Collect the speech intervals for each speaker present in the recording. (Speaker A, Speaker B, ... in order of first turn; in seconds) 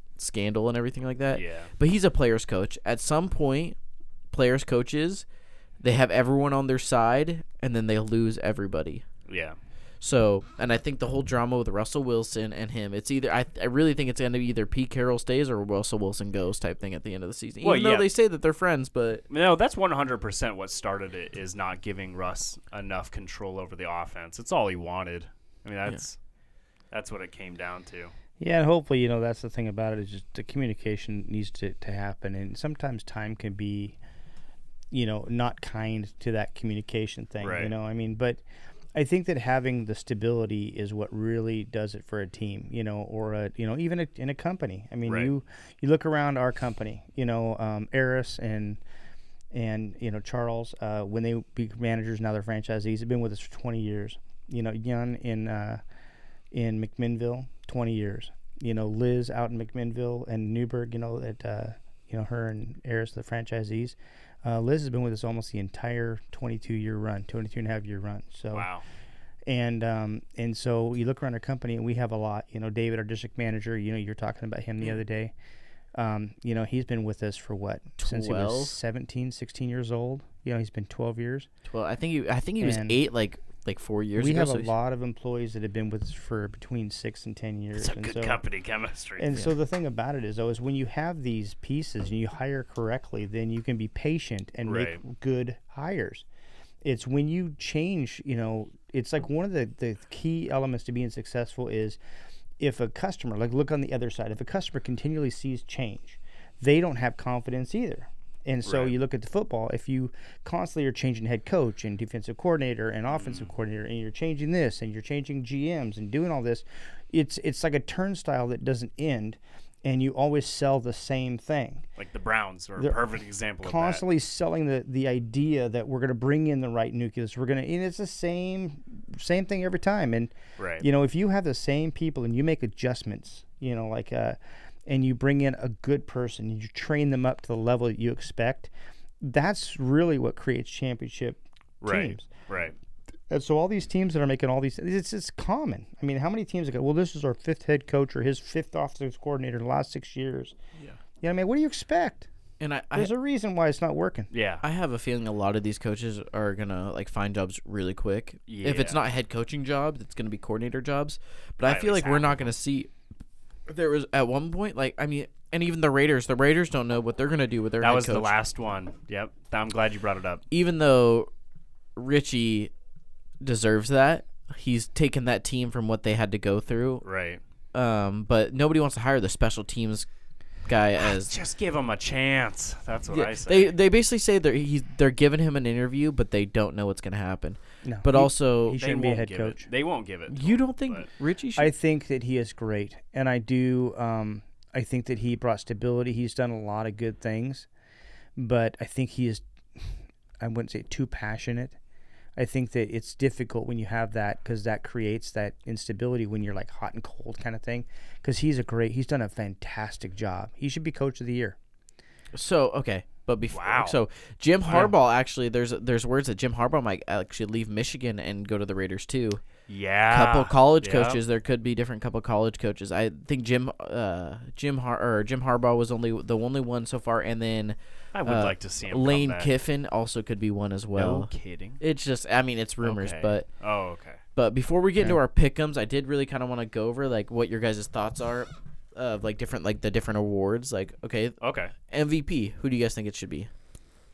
Speaker A: 0.2-3.8, 4.3-5.3, 5.8-9.1, 10.0-19.2, 78.0-78.8, 81.7-84.7, 152.6-153.1, 154.6-162.9, 163.7-168.3, 170.5-171.3, 171.9-172.7, 173.4-177.0, 177.7-180.1, 180.7-181.3, 183.1-188.8, 190.3-191.7, 212.3-219.4, 220.1-233.4, 234.4-243.5
Speaker B: 1.3-1.7, 9.3-9.6, 17.6-18.1, 19.3-26.2, 26.9-28.1, 37.4-37.7, 45.1-45.3, 68.5-68.8, 87.8-89.3, 94.6-95.0, 108.6-109.0, 113.1-113.5, 122.0-124.0, 130.6-130.9, 141.8-142.8, 154.3-154.6, 158.5-159.0, 161.6-162.5, 167.8-170.4, 177.0-177.4, 181.0-183.7, 188.7-191.1, 213.5-214.0, 219.7-221.2, 228.1-229.5, 230.9-231.8, 232.8-234.2, 241.4-241.7
Speaker C: 28.4-34.0, 34.9-38.4, 39.0-48.8, 49.5-55.8, 56.5-68.7, 69.5-75.3, 76.0-81.5, 82.6-83.0, 84.2-88.4, 89.2-96.3, 96.8-102.0, 102.6-121.8, 123.6-142.3, 143.3-150.6, 151.2-152.3, 152.9-154.3, 187.8-189.7, 191.6-197.7, 198.4-199.9, 200.4-201.8, 202.4-211.6